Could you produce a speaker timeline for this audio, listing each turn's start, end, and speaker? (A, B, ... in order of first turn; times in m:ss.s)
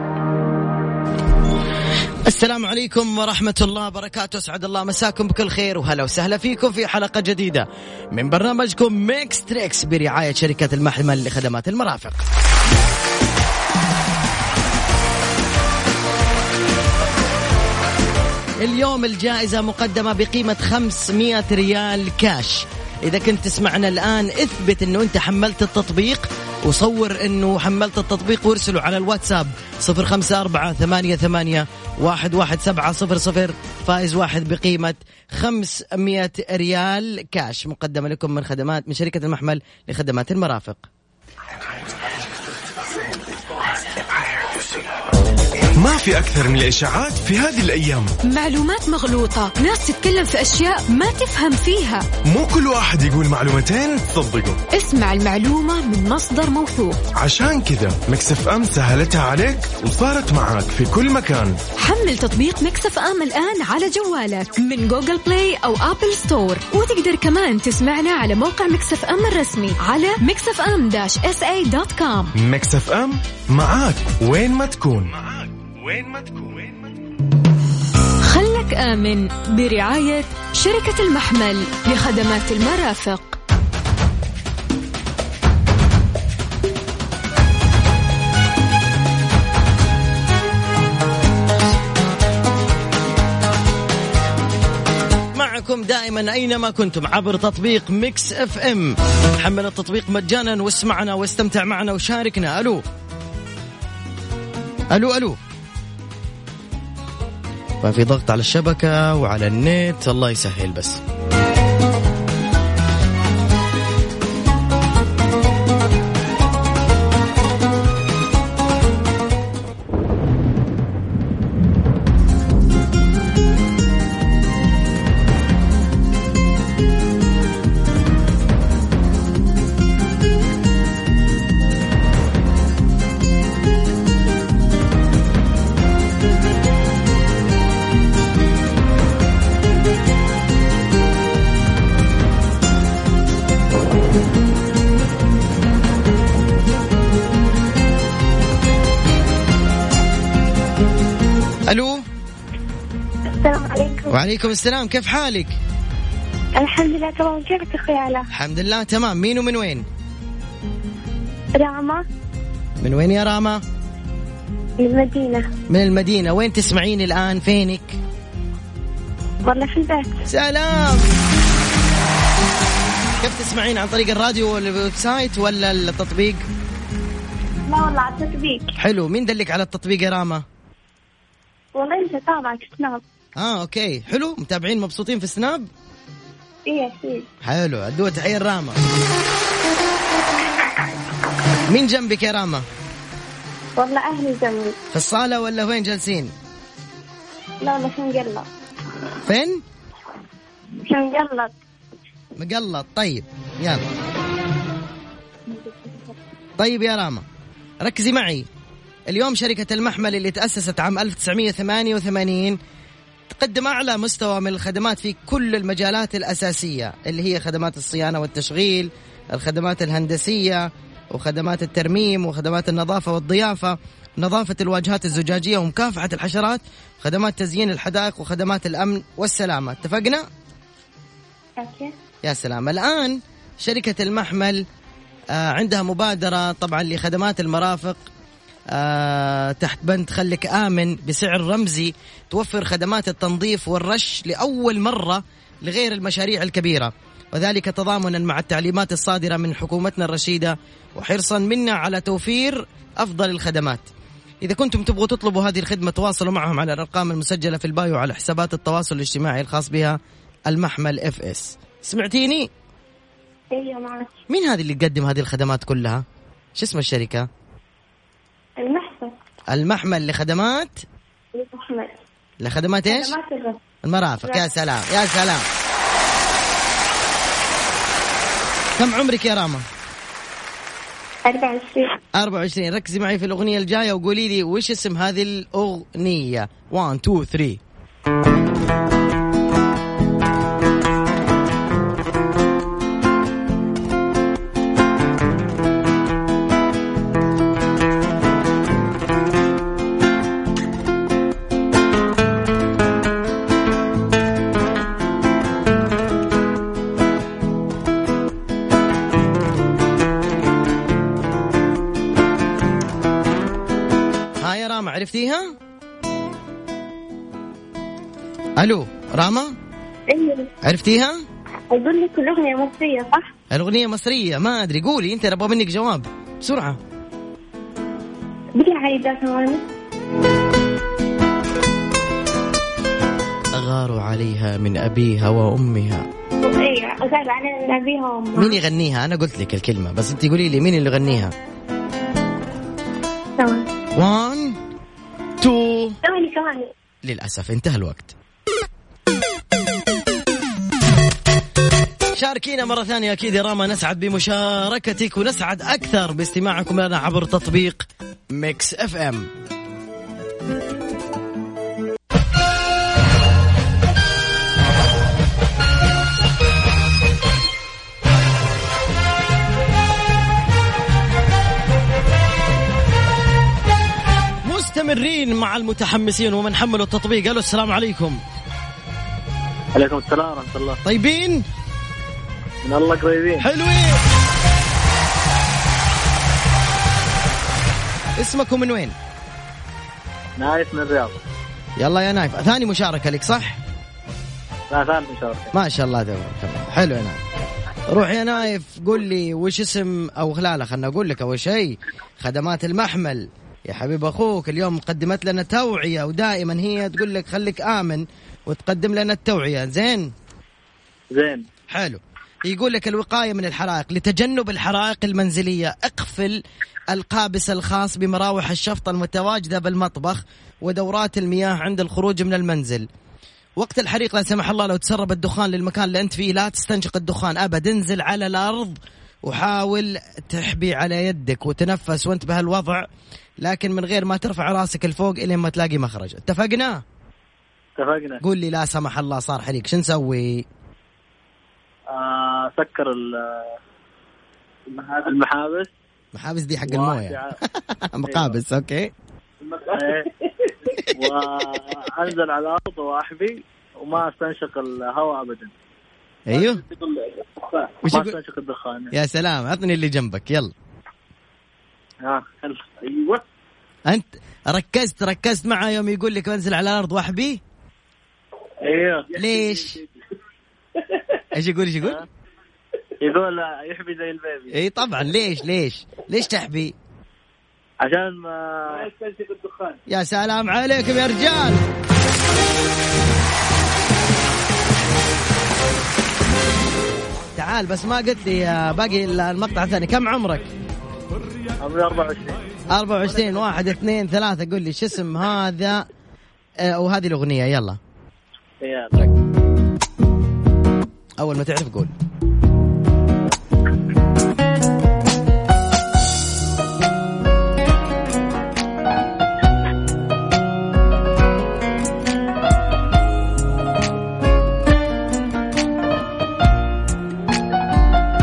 0:02.2-0:12.2 A
0:18.6-0:40.9 A
0:44.1-0:44.8 B
0:45.8-0:48.1 B
0:48.2-0:52.1 C
0:52.2-0:54.6 B
0:54.7-0:57.0 C
0:57.2-1:01.6 B
1:01.8-1:12.3 C
1:12.4-1:16.9 B
1:18.2-1:23.4 C
1:35.3-1:42.8 A
1:44.9-1:45.4 A
1:47.8-1:51.0 A
2:31.7-2:32.0 A
2:33.4-2:34.1 D
2:34.1-2:35.6 A
2:36.6-2:38.3 D
2:38.3-2:39.9 A
2:41.6-2:42.0 D
2:42.8-2:43.6 A
2:44.8-2:45.5 D
2:45.7-2:48.0 A
2:49.4-2:50.2 D
2:50.3-2:51.1 A
2:53.2-2:56.4 A
2:57.7-2:58.7 D
2:58.8-3:00.4 A
3:01.8-3:03.0 D
3:03.4-3:05.7 A
3:06.7-3:07.3 D
3:07.4-3:08.8 A
3:11.7-3:12.7 A
3:13.8-3:14.8 D
3:14.9-3:16.3 A
3:17.6-3:18.5 D
3:19.2-3:19.6 A
3:20.9-3:21.5 D
3:22.4-3:23.8 A
3:25.5-3:26.2 D
3:26.6-3:27.2 A
3:27.8-3:28.5 A
3:29.1-3:32.6 A
3:33.3-3:50.3 A
3:51.6-3:51.9 D
3:52.2-3:54.6 A
3:55.3-3:58.0 A
3:58.7-4:13.9 A
4:14.4-4:22.5 A
4:23.5-4:24.2 D
4:24.3-4:26.0 A
4:26.6-4:27.3 A
4:28.6-4:29.1 D
4:29.5-4:30.8 A
4:31.3-4:32.0 D
4:32.4-4:33.2 A
4:32.9-4:33.6 D
4:33.8-4:35.5 A
4:38.8-4:39.6 A
4:41.2-4:41.9 D
4:42.2-4:47.6 A
5:14.4-5:15.5 A
5:18.6-5:19.6 A
5:20.1-5:20.5 D
5:20.6-5:21.2 A
5:21.7-5:23.3 D
5:23.5-5:26.8 A
5:28.6-5:29.7 D
5:33.5-5:36.1 A
5:36.4-5:38.6 D
5:38.4-5:41.3 A
5:43.4-5:43.7 D
5:44.0-5:44.6 A
5:45.4-5:46.0 A
5:46.0-5:46.7 D
5:47.0-5:48.1 A
5:52.2-5:59.3 A
6:14.4-6:18.2 A
6:19.8-6:20.8 E
6:20.8-6:21.4 A
6:22.6-6:23.5 E
6:23.4-6:24.0 A
6:28.2-6:28.9 A
6:30.4-6:31.2 E
6:31.8-6:33.6 A
6:34.7-6:35.5 E
6:35.5-6:37.2 A
6:37.9-6:50.1 A
6:51.1-6:51.5 E
6:51.7-7:02.9 A
7:03.6-7:12.9 A
7:13.4-7:16.8 A
7:17.8-7:18.2 E
7:18.2-7:20.5 A
7:21.9-7:23.5 E
7:24.7-7:25.7 E
7:26.1-7:28.9 A
7:26.7-7:27.3 E
7:28.1-7:28.4 E
7:29.5-7:30.1 E
7:30.9-7:35.5 E
7:36.3-7:36.6 A
7:36.3-7:38.9 E
7:37.8-7:38.2 A
7:38.9-7:40.5 A
7:42.0-7:43.2 E
7:43.9-7:47.4 A
7:48.6-7:49.6 E
7:49.2-7:49.8 A
7:51.3-7:52.0 A
7:53.0-7:54.6 E
7:54.5-7:56.8 A
7:57.8-7:59.8 E
7:59.9-8:01.6 A
8:07.4-8:10.5 A
8:11.6-8:12.4 E
8:12.7-8:15.9 A
8:16.6-8:17.8 A
8:18.6-8:19.0 E
8:21.2-8:21.9 A